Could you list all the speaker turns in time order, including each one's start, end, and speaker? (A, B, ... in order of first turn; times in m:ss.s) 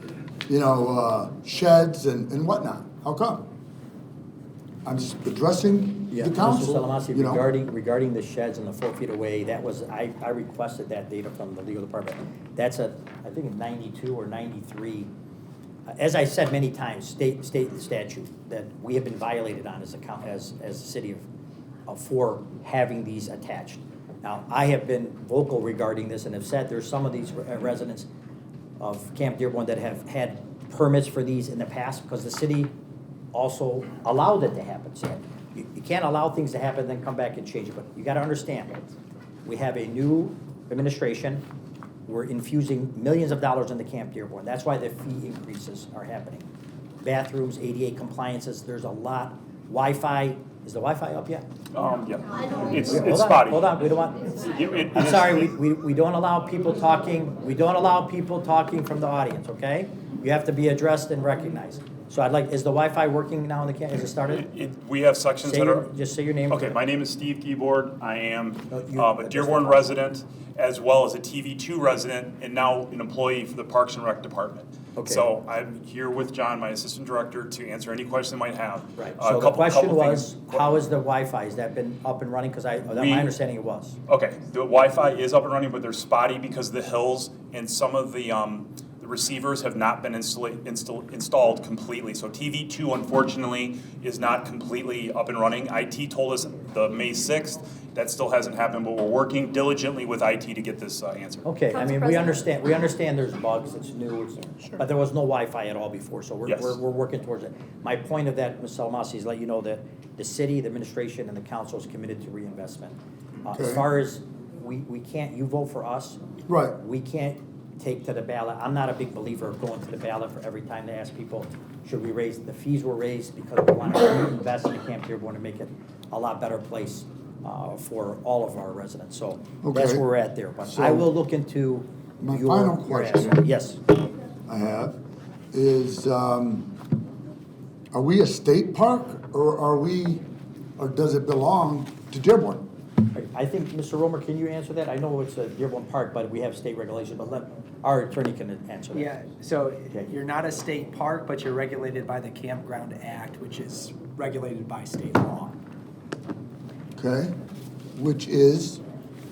0:00.5-0:03.4 A
0:04.8-0:07.4 A
0:06.1-0:15.1 B
0:15.9-0:21.2 B
0:21.9-0:28.1 B
0:28.8-0:32.7 B
0:33.3-0:38.8 B
0:39.4-0:41.4 B
0:42.1-0:46.5 B
0:47.0-0:51.4 B
0:51.7-0:53.7 C
0:52.8-0:54.3 B
0:54.4-0:55.5 C
0:54.9-1:04.5 B
1:04.3-1:05.9 C
1:05.4-1:06.8 B
1:06.5-1:20.5 C
1:08.7-1:09.9 B
1:15.0-1:15.2 B
1:19.0-1:24.0 B
1:22.9-1:23.3 C
1:24.1-1:41.5 C
1:41.4-1:56.2 B
1:46.5-1:46.8 C
1:53.5-1:53.9 A
1:56.5-1:56.8 A
1:56.8-2:13.8 B
2:09.6-2:10.0 A
2:10.6-2:11.1 A
2:12.2-2:13.4 A
2:14.5-2:15.0 A
2:15.5-2:16.8 A
2:17.9-2:20.2 A
2:20.8-2:22.6 A
2:23.1-2:29.1 B
2:28.9-2:35.6 D
2:37.0-2:37.3 A
2:38.0-2:38.8 A